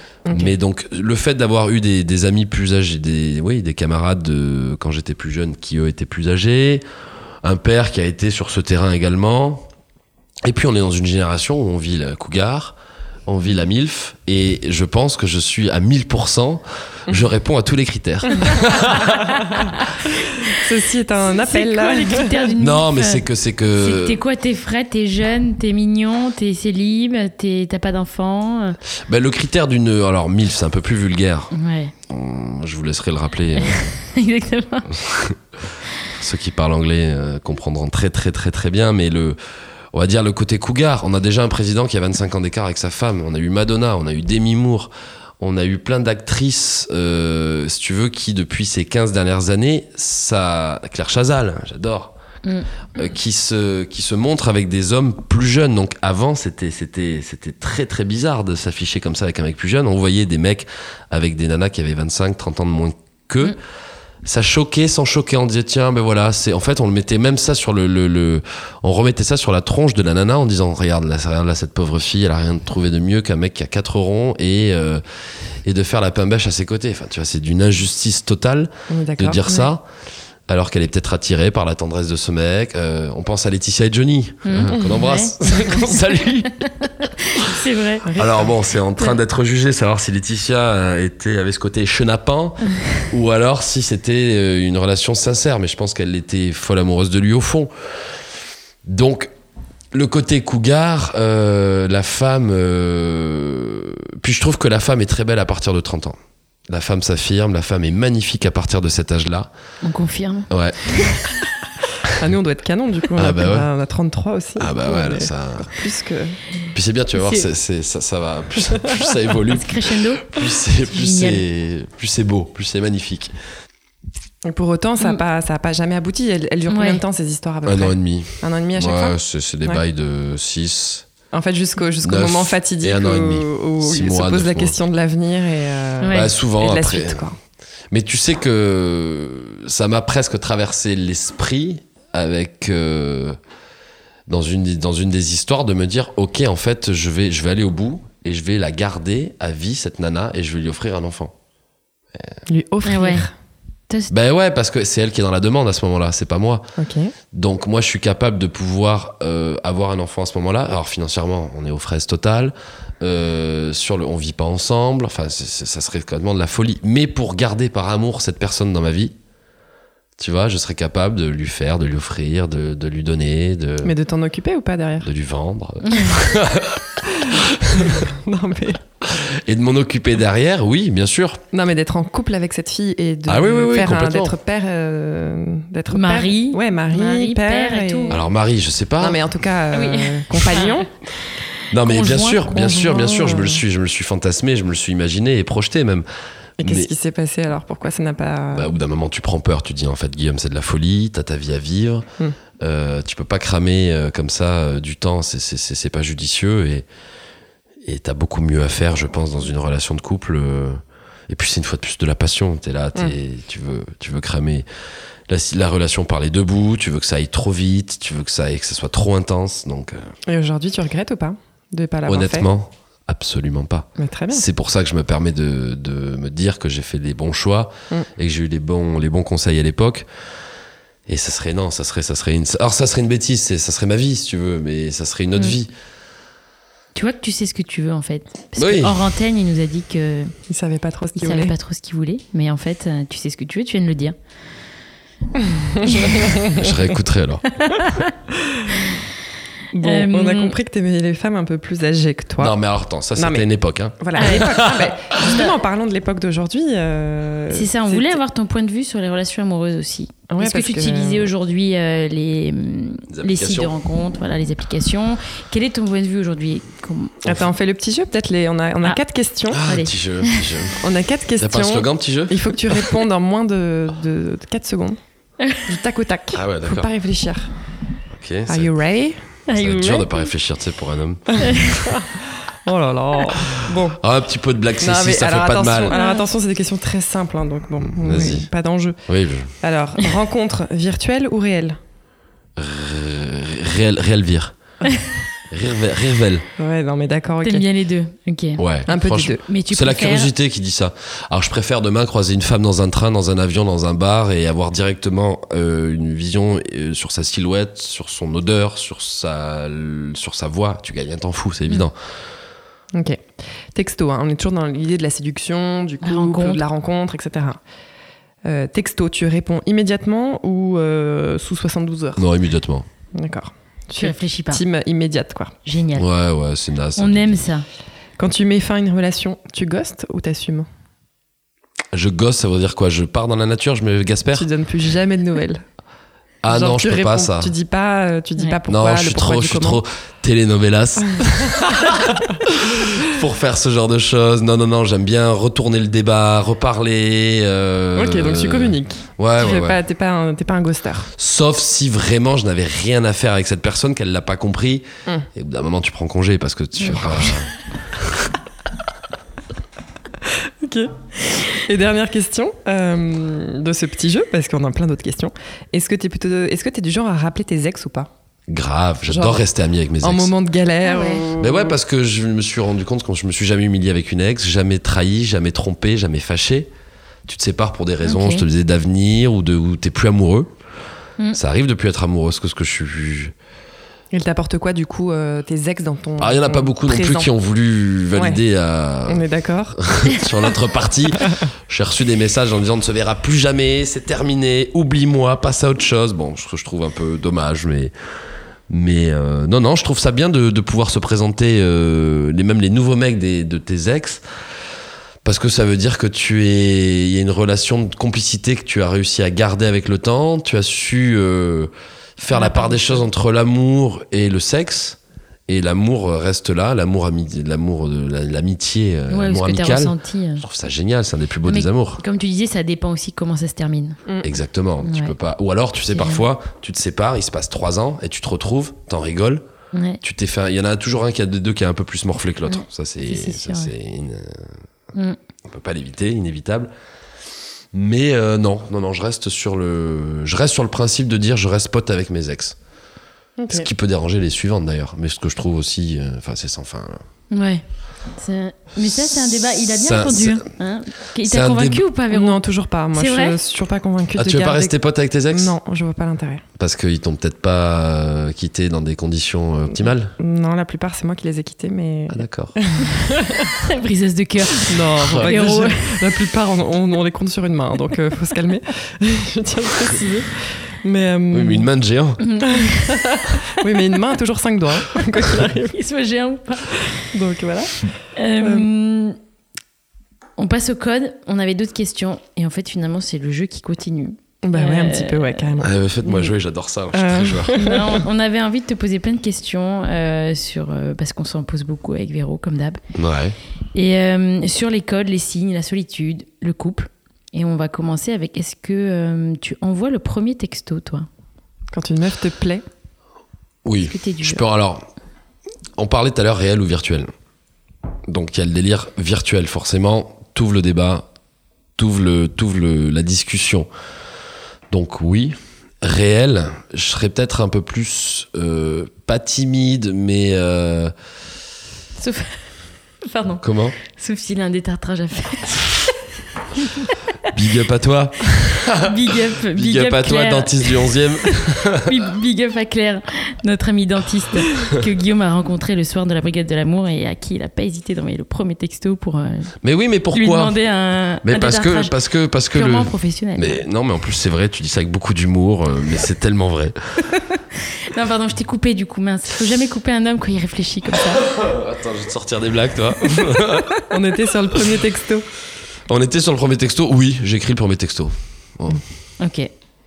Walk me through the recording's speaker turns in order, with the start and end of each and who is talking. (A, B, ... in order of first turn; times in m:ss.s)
0:00.3-0:00.6 A
0:00.3-0:06.8 B
0:07.4-0:09.7 B
0:10.4-0:19.6 B
0:19.3-0:19.8 A
0:20.3-0:22.4 A
0:21.3-0:23.2 C
0:22.6-0:24.2 B
0:23.8-0:28.8 C
0:29.1-0:31.5 B
0:31.5-0:31.9 C
0:32.1-0:33.8 B
0:33.6-0:35.0 C
0:34.9-0:35.4 B
0:36.2-0:39.4 B
0:39.9-0:52.1 B
0:52.4-0:52.7 C
0:53.0-1:03.6 B
1:04.2-1:15.0 B
1:15.6-1:19.8 B
1:18.9-1:19.6 A
1:20.5-1:26.9 B
1:24.4-1:28.1 C
1:28.0-1:28.5 A
1:28.2-1:38.2 B
1:38.8-1:39.3 B
1:39.9-1:46.2 B
1:46.7-1:49.5 B
1:49.8-1:51.4 C
1:50.5-1:51.0 B
1:52.1-1:56.4 A
1:53.2-1:53.7 B
1:54.6-1:55.8 B
1:56.7-2:03.3 B
1:57.2-1:57.5 C
1:59.5-2:01.4 C
2:04.4-2:09.8 A
2:06.7-2:07.0 C
2:07.7-2:11.1 B
2:11.3-2:17.4 A
2:12.0-2:14.8 B
2:16.0-2:16.3 C
2:16.1-2:17.3 B
2:17.9-2:23.4 B
2:24.3-2:31.3 B
2:32.5-2:33.3 A
2:32.8-2:33.3 C
2:34.1-2:36.7 B
2:36.8-2:37.1 A
2:37.3-2:49.2 B
2:50.2-2:53.9 B
2:53.8-2:55.1 A
2:55.0-2:58.1 B
2:55.9-2:56.2 C
2:57.8-2:58.8 A
2:59.1-3:01.4 B
3:01.5-3:08.2 A
3:03.3-3:04.4 B
3:05.9-3:08.2 C
3:08.1-3:09.2 B
3:09.0-3:10.9 A
3:09.7-3:10.9 C
3:11.7-3:16.1 B
3:11.7-3:12.8 C
3:12.6-3:13.6 A
3:16.6-3:18.7 A
3:16.6-3:16.9 B
3:18.5-3:22.1 B
3:22.6-3:26.9 B
3:27.8-3:34.7 B
3:35.3-3:40.1 B
3:40.3-3:42.5 A
3:42.1-3:50.1 B
3:44.0-3:44.4 A
3:51.1-3:55.7 B
3:57.0-4:00.3 C
3:58.6-3:59.0 B
4:00.5-4:01.5 A
4:01.2-4:04.2 C
4:05.4-4:06.7 A
4:05.8-4:06.3 C
4:06.4-4:07.4 B
4:07.6-4:08.1 C
4:08.4-4:08.9 A
4:09.7-4:12.5 A
4:09.8-4:10.6 C
4:12.4-4:14.9 B
4:13.2-4:13.4 A
4:14.0-4:18.2 A
4:14.2-4:15.5 C
4:17.5-4:27.4 C
4:20.3-4:21.3 A
4:23.1-4:23.7 B
4:27.2-4:29.6 A
4:29.5-4:30.9 B
4:29.6-4:30.5 C
4:30.8-4:35.0 A
4:31.4-4:32.9 B
4:35.6-4:37.5 A
4:36.3-4:36.9 B
4:38.1-4:38.7 B
4:38.5-4:39.2 A
4:39.5-4:40.3 C
4:39.5-4:41.8 B
4:41.4-4:44.0 A
4:41.4-4:41.8 C
4:44.0-4:46.0 B
4:44.8-4:49.0 A
4:45.9-4:46.3 C
4:47.8-4:48.5 B
4:49.1-4:49.5 B
4:49.6-4:51.8 A
4:52.6-4:54.6 B
4:55.5-4:56.5 B
4:56.6-4:57.7 A
4:57.4-5:00.3 C
4:58.6-5:12.0 B
4:58.9-4:59.4 A
5:12.9-5:17.6 A
5:16.0-5:16.6 C
5:18.4-5:22.2 A
5:22.2-5:22.9 B
5:23.2-5:25.6 A
5:24.0-5:24.6 C
5:25.6-5:26.1 C
5:26.0-5:27.5 B
5:27.0-5:27.7 C
5:28.2-5:30.7 A
5:31.9-5:34.5 B
5:34.3-5:35.6 A
5:36.4-5:37.5 B
5:36.5-5:39.8 A
5:38.7-5:49.8 B
5:41.2-5:42.0 A
5:48.0-5:51.1 A
5:51.2-5:58.3 B
6:00.2-6:08.1 A
6:08.5-6:10.3 B
6:09.1-6:09.4 A
6:10.0-6:11.8 A
6:10.8-6:11.2 C
6:11.3-6:16.7 B
6:17.3-6:20.5 B
6:18.0-6:18.4 C
6:21.3-6:23.3 B
6:24.1-6:27.3 A
6:26.2-6:29.3 B
6:28.1-6:28.4 A
6:29.1-6:29.9 A
6:29.8-6:37.9 B
6:38.7-6:44.2 B
6:45.2-7:02.0 B
6:52.3-6:53.0 C
6:59.1-7:00.4 C
7:01.4-7:04.0 C
7:04.2-7:09.4 B
7:04.8-7:05.2 C
7:05.9-7:06.3 C
7:09.7-7:10.0 C
7:10.0-7:14.5 B
7:12.5-7:13.7 C
7:15.4-7:16.7 B
7:17.7-7:22.6 B
7:23.4-7:23.7 A
7:23.5-7:27.0 B
7:27.3-7:27.6 C
7:28.2-7:33.4 C
7:28.8-7:30.4 B
7:31.2-7:31.8 B
7:32.1-7:34.8 A
7:34.2-7:35.6 B
7:35.3-7:36.4 A
7:36.6-7:40.1 B
7:40.2-7:43.6 A
7:42.1-7:42.6 B
7:43.6-7:46.1 C
7:44.6-7:51.7 A
7:45.0-7:45.4 B
7:51.3-7:52.2 B
7:52.2-7:53.2 C
7:52.4-7:55.8 A
7:55.2-7:57.0 C
7:56.8-7:58.7 A
7:58.2-7:59.2 C
8:00.4-8:05.5 C
8:04.4-8:06.3 A
8:05.6-8:07.6 B
8:06.9-8:08.0 A
8:07.6-8:12.8 C
8:13.0-8:13.4 B
8:13.7-8:21.1 C
8:21.7-8:22.6 A
8:23.6-8:24.9 B
8:23.9-8:24.4 C
8:25.8-8:27.1 B
8:28.1-8:31.1 B
8:31.8-8:33.7 B
8:34.7-8:40.9 B
8:42.0-8:42.5 C
8:43.0-8:46.0 C
8:43.4-8:43.8 B
8:46.6-8:47.0 C
8:47.3-8:52.0 B
8:48.7-8:59.5 C
8:59.6-9:00.6 B
9:00.1-9:01.9 C
9:01.2-9:06.8 B
9:02.5-9:03.6 C
9:07.6-9:11.3 C
9:11.2-9:13.8 B
9:13.9-9:15.3 A
9:15.9-9:18.8 B
9:19.2-9:19.5 C